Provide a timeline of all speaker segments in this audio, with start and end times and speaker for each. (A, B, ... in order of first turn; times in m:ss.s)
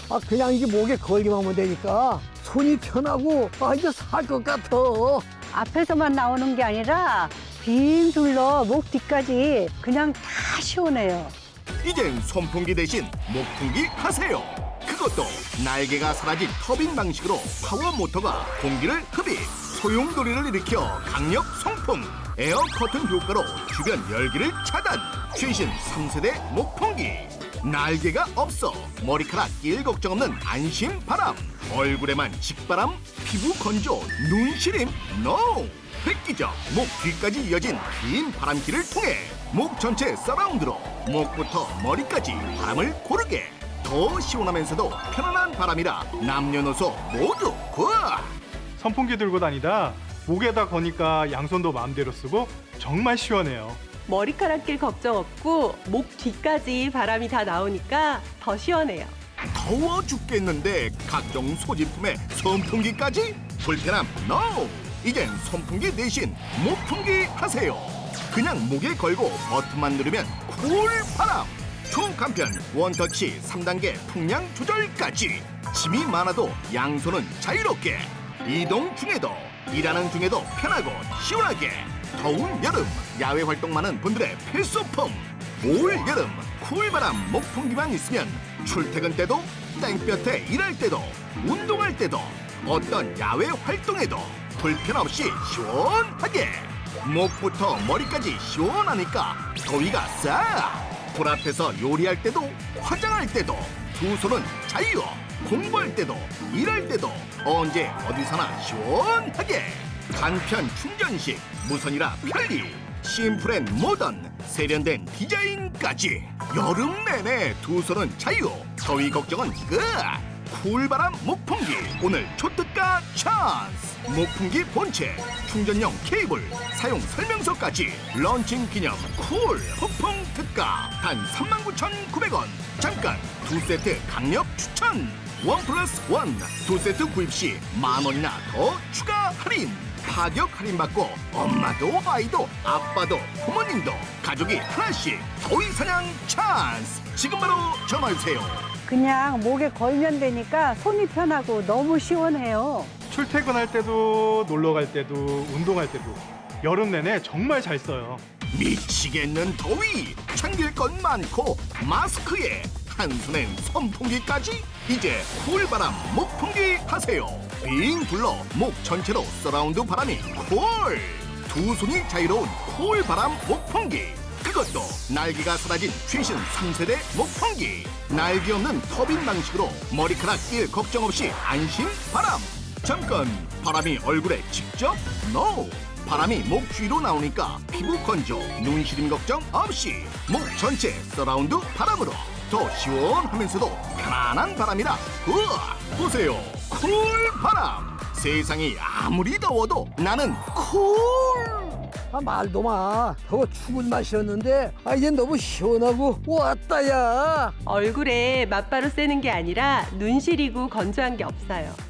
0:00.1-0:05.3 A
0:05.5-0:11.3 B
0:11.8-0:48.4 C
0:48.8-0:53.8 D
0:54.1-0:59.1 E
0:59.5-2:28.7 C
2:28.9-2:32.9 B
2:33.1-2:38.2 D
2:38.5-3:21.8 C
3:22.1-3:27.5 A
3:27.6-3:31.8 E